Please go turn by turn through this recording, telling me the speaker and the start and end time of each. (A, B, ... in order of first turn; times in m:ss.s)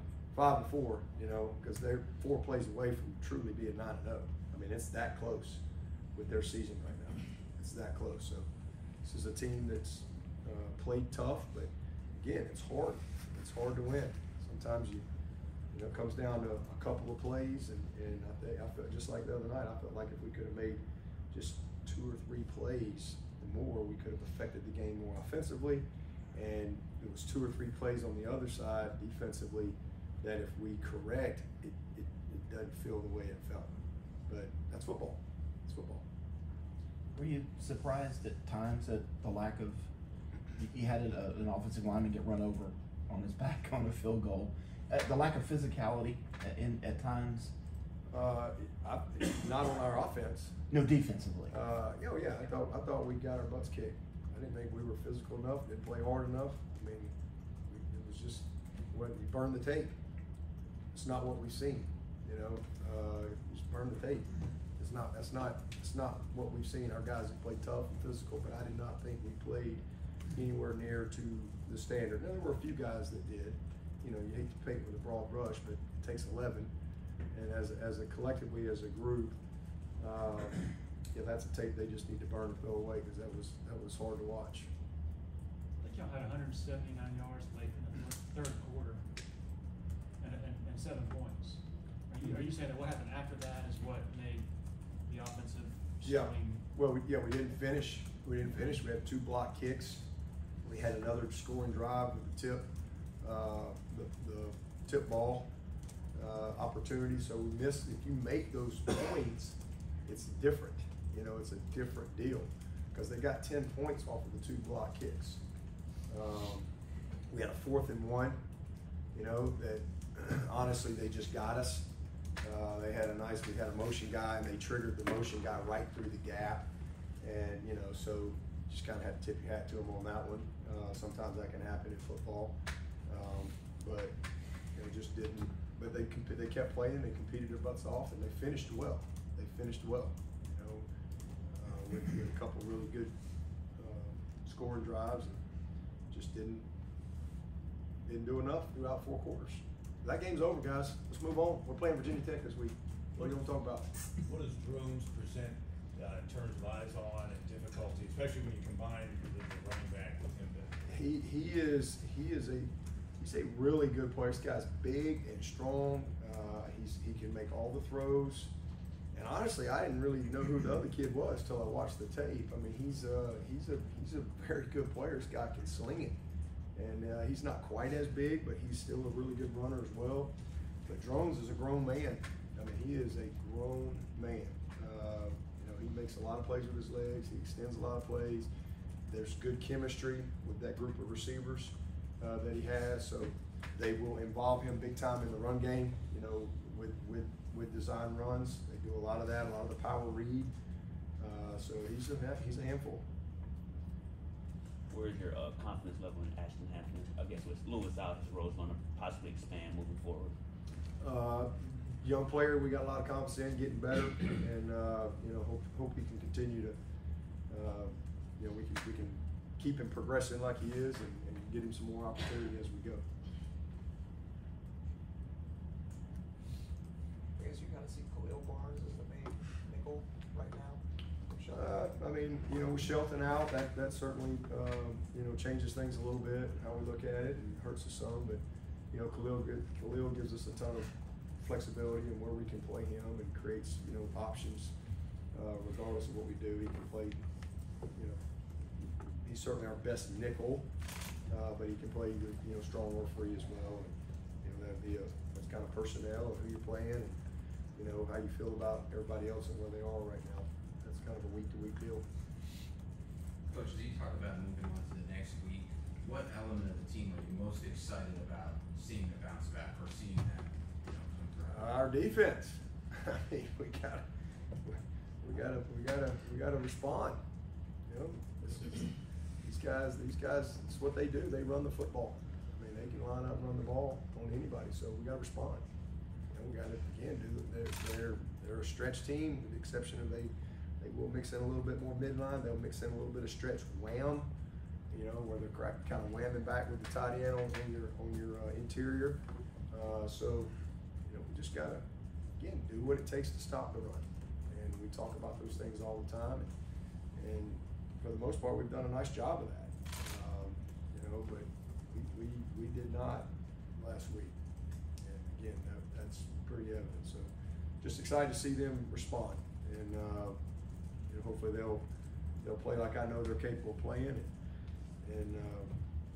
0:00.3-0:05.6 A
0:06.1-0:08.5 A
0:09.0-0:15.1 A
0:15.7-0:33.7 A
0:34.3-0:36.0 A
0:37.1-0:39.9 B
0:40.6-0:47.5 B
0:48.1-0:50.6 A
0:50.7-0:51.6 B
0:51.5-0:57.1 A
0:57.7-1:00.0 A
1:00.9-1:16.7 A
1:17.3-1:19.4 A
1:20.0-1:24.7 A
1:25.8-1:29.1 C
1:30.2-1:34.5 C
1:32.2-1:32.5 A
1:35.0-1:36.6 C
1:36.0-1:40.1 A
1:40.6-1:42.6 A
1:43.2-1:45.5 A
1:46.1-1:55.4 A
1:56.1-1:56.7 A
1:57.3-1:58.4 A
1:59.1-2:01.9 A
2:02.4-2:06.7 A
2:07.2-2:12.6 A
2:13.1-2:14.1 A
2:14.8-2:20.9 A
2:21.5-2:23.1 A
2:23.8-2:25.4 A
2:26.1-2:26.6 A
2:28.1-2:33.9 A
2:34.2-2:40.7 D
2:40.8-2:48.5 A
2:49.1-2:56.2 A
2:56.8-3:00.3 A
3:00.9-3:08.5 A
3:09.1-3:20.5 A
3:21.2-3:23.1 A
3:24.9-3:30.3 E
3:31.0-3:36.8 A
3:37.5-3:43.0 A
3:47.4-3:50.8 F
3:51.3-3:51.6 F
3:51.5-3:58.4 A
3:58.9-4:04.7 A
4:05.3-4:07.2 A
4:09.2-4:10.7 A
4:11.3-4:17.2 A
4:17.8-4:22.0 A
4:23.5-4:31.6 G
4:31.4-4:34.0 A
4:34.6-4:37.2 A
4:37.9-4:38.9 A
4:39.4-4:45.6 A
4:46.3-4:54.3 A
4:54.9-5:00.5 A
5:01.0-5:01.8 A
5:02.4-5:06.5 A
5:07.2-5:14.3 A
5:15.0-5:17.3 A
5:17.8-5:20.4 A
5:21.1-5:21.8 A
5:22.4-5:24.3 A
5:25.0-5:25.8 A